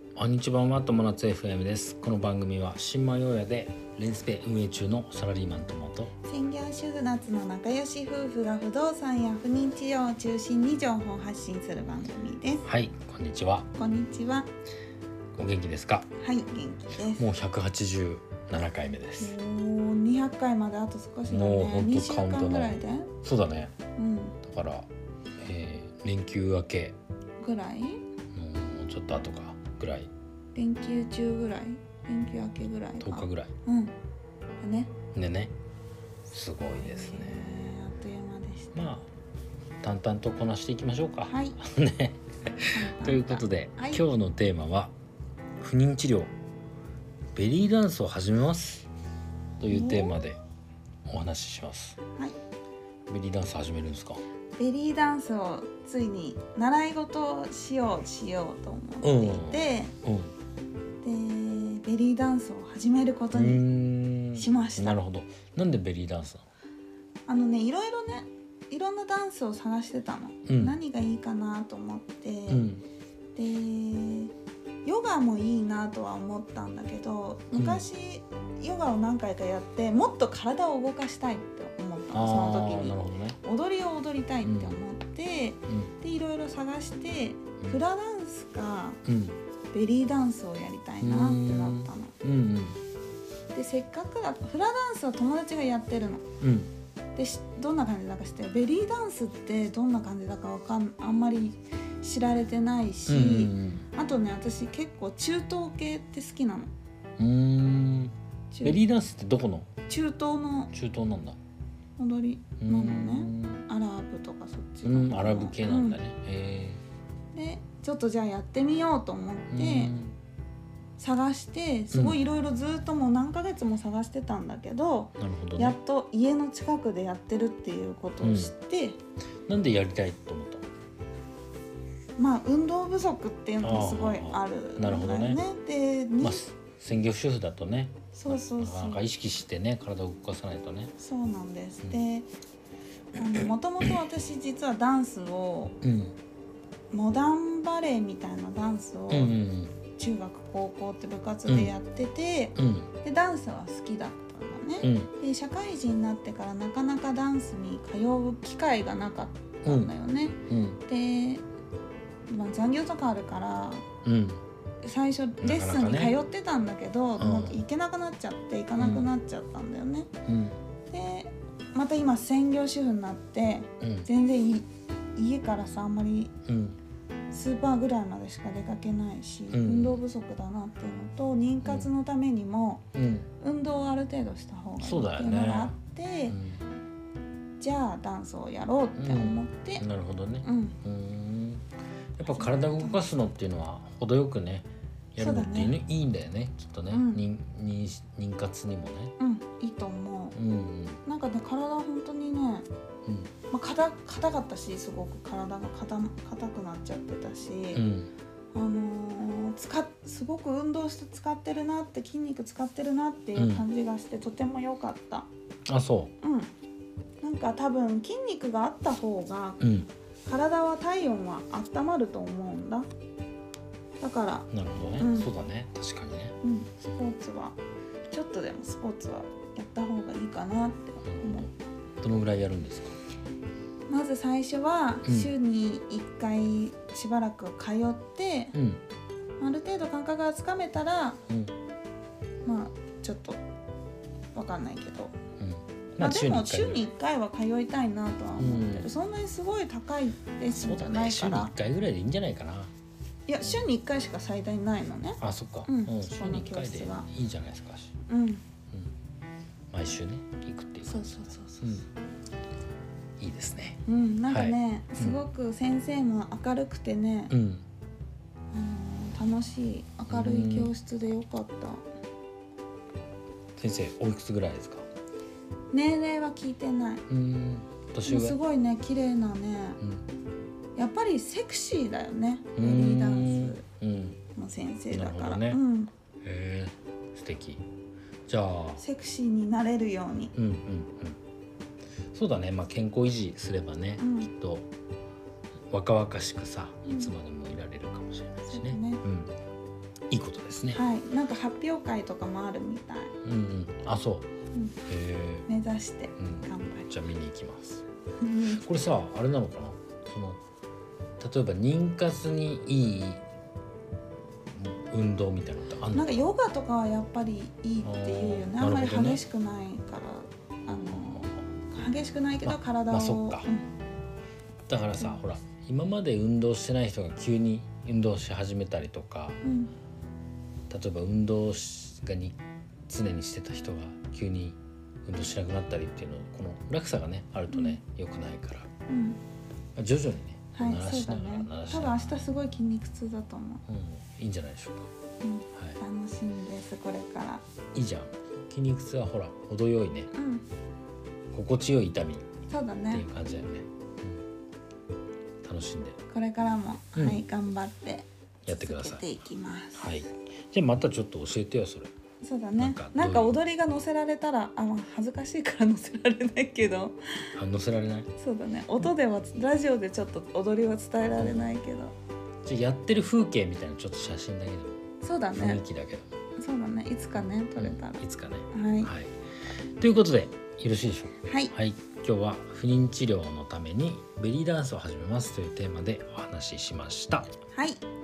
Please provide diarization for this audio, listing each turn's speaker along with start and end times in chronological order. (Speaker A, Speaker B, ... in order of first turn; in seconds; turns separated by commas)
Speaker A: 0.1-6.1, Speaker B: 6.2-12.7, Speaker A: 12.6-13.7, Speaker B: 13.7-14.5, Speaker A: 15.4-16.1, Speaker B: 16.2-17.3, Speaker A: 17.1-19.4, Speaker B: 19.2-23.1, Speaker A: 21.3-23.7, Speaker B: 23.9-24.4, Speaker A: 24.4-24.9, Speaker A: 25.4-27.0, Speaker B: 27.4-28.0, Speaker A: 28.3-30.1, Speaker B: 30.5-33.9, Speaker A: 33.0-33.5, Speaker B: 34.6-34.9, Speaker A: 35.1-35.5, Speaker A: 36.3-37.7, Speaker B: 36.6-38.9, Speaker A: 38.7-39.1, Speaker A: 39.8-44.9, Speaker B: 41.3-41.6, Speaker B: 42.7-44.0, Speaker A: 45.6-46.3, Speaker A: 47.3-48.9, Speaker A: 49.6-50.4, Speaker B: 49.7-50.2, Speaker A: 51.0-52.0, Speaker A: 53.1-54.2, Speaker B: 54.6-59.9, Speaker A: 59.0-60.3, Speaker B: 61.0-63.6, Speaker A: 63.3-66.5, Speaker B: 64.3-65.0, Speaker B: 67.3-72.7, Speaker A: 70.5-70.8, Speaker A: 72.5-72.8, Speaker B: 73.4-89.0, Speaker A: 77.5-77.8, Speaker A: 82.1-83.4, Speaker A: 84.4-84.8, Speaker A: 85.7-85.9, Speaker A: 89.0-89.4, Speaker B: 89.7-92.1, Speaker A: 91.0-92.8, Speaker B: 93.5-96.2, Speaker A: 96.4-96.7, Speaker B: 97.2-106.7, Speaker A: 103.1-103.9, Speaker A: 107.2-109.7, Speaker B: 108.5-108.8, Speaker B: 109.9-110.7, Speaker A: 110.7-111.4, Speaker B: 112.0-116.0, Speaker A: 112.6-113.6, Speaker A: 114.8-116.8, Speaker B: 117.3-119.9, Speaker A: 119.5-120.2, Speaker B: 121.0-129.0, Speaker A: 121.9-122.2, Speaker A: 125.2-125.8, Speaker A: 128.2-128.5, Speaker A: 129.5-130.7, Speaker B: 132.2-136.5, Speaker A: 133.6-135.4, Speaker A: 136.2-140.9, Speaker B: 138.1-139.1, Speaker B: 141.0-142.3, Speaker B: 143.1-145.8, Speaker A: 145.8-146.2, Speaker B: 146.9-149.3, Speaker A: 149.1-149.8, Speaker B: 149.9-161.4, Speaker A: 151.5-151.7, Speaker A: 152.6-152.9, Speaker A: 154.8-155.1, Speaker A: 159.7-159.9, Speaker A: 160.5-160.8, Speaker B: 162.3-163.8, Speaker A: 164.0-164.4, Speaker B: 164.8-170.1, Speaker A: 165.4-166.2, Speaker A: 167.2-167.6, Speaker A: 168.8-169.1, Speaker A: 170.2-170.6, Speaker B: 170.9-176.3, Speaker A: 173.8-174.1, Speaker A: 176.5-176.8, Speaker B: 177.3-182.8, Speaker A: 179.5-180.0, Speaker A: 182.9-183.3, Speaker B: 183.4-186.4, Speaker A: 184.8-185.8, Speaker A: 186.3-186.6, Speaker B: 187.6-189.8, Speaker A: 189.0-191.7, Speaker B: 190.4-190.8, Speaker A: 192.2-199.1, Speaker B: 192.3-193.0, Speaker B: 195.2-195.8, Speaker B: 196.9-197.2, Speaker B: 199.2-200.4, Speaker A: 200.3-201.0, Speaker B: 201.1-202.7, Speaker A: 203.1-203.3, Speaker B: 203.5-207.8, Speaker A: 207.7-208.1, Speaker B: 208.5-215.3, Speaker A: 213.3-213.7, Speaker A: 215.7-216.1, Speaker B: 216.2-216.5, Speaker B: 217.2-219.7, Speaker A: 219.6-219.9, Speaker B: 220.2-222.9, Speaker B: 224.0-225.3, Speaker A: 224.5-226.4, Speaker B: 226.4-227.6, Speaker B: 228.1-231.5, Speaker A: 231.1-233.0, Speaker B: 233.9-238.6, Speaker A: 235.1-235.3, Speaker A: 238.5-238.8, Speaker B: 239.4-241.2, Speaker A: 241.3-241.5, Speaker B: 242.4-243.4, Speaker B: 244.3-245.1, Speaker A: 245.4-246.8, Speaker B: 246.0-251.5, Speaker A: 248.4-248.9, Speaker A: 250.5-252.7, Speaker B: 253.3-257.1, Speaker A: 255.2-257.9, Speaker B: 258.1-258.4, Speaker A: 259.7-261.9, Speaker B: 260.9-261.8, Speaker A: 263.2-265.2, Speaker B: 263.9-267.3, Speaker A: 267.3-267.6, Speaker B: 268.5-271.9, Speaker A: 270.1-270.7, Speaker A: 273.6-274.9, Speaker B: 275.7-277.0, Speaker A: 277.1-278.4, Speaker B: 278.1-279.8, Speaker B: 280.8-283.6, Speaker A: 282.6-284.2, Speaker B: 284.4-285.9, Speaker A: 284.9-285.6, Speaker A: 286.2-287.6, Speaker A: 288.2-288.8, Speaker B: 288.8-290.3, Speaker A: 290.4-291.2, Speaker A: 292.1-294.7, Speaker B: 294.0-294.3, Speaker A: 295.7-299.3, Speaker B: 296.9-297.1, Speaker B: 298.5-299.0, Speaker A: 300.1-300.8, Speaker B: 300.7-303.1, Speaker A: 303.2-304.3, Speaker A: 304.9-305.5, Speaker B: 305.4-306.9, Speaker A: 306.2-307.8, Speaker B: 308.2-308.6, Speaker A: 308.5-310.4, Speaker A: 311.2-313.2, Speaker A: 314.5-316.3, Speaker B: 315.9-323.6, Speaker A: 317.8-319.2, Speaker A: 320.9-321.4, Speaker A: 322.4-323.4, Speaker A: 324.7-329.4, Speaker B: 329.4-329.7, Speaker A: 330.7-332.4, Speaker A: 332.9-338.7, Speaker B: 337.5-337.8, Speaker B: 338.9-339.2, Speaker A: 339.8-342.1, Speaker B: 340.6-343.6, Speaker A: 343.7-344.9, Speaker B: 345.2-347.4, Speaker A: 347.8-350.1, Speaker B: 350.1-350.4, Speaker A: 351.3-352.2, Speaker B: 352.5-353.1, Speaker A: 352.9-354.2, Speaker A: 355.4-356.0, Speaker B: 356.1-360.0, Speaker A: 356.9-357.2, Speaker A: 358.4-359.1, Speaker A: 359.8-361.9, Speaker B: 362.2-367.3, Speaker A: 362.6-363.4, Speaker A: 367.4-368.1, Speaker B: 368.2-371.9, Speaker A: 371.2-371.5, Speaker A: 372.4-374.8, Speaker B: 375.0-375.6, Speaker A: 375.4-376.1, Speaker B: 376.4-378.9, Speaker A: 377.6-379.1, Speaker A: 379.8-387.3, Speaker B: 381.2-381.5, Speaker B: 387.5-387.8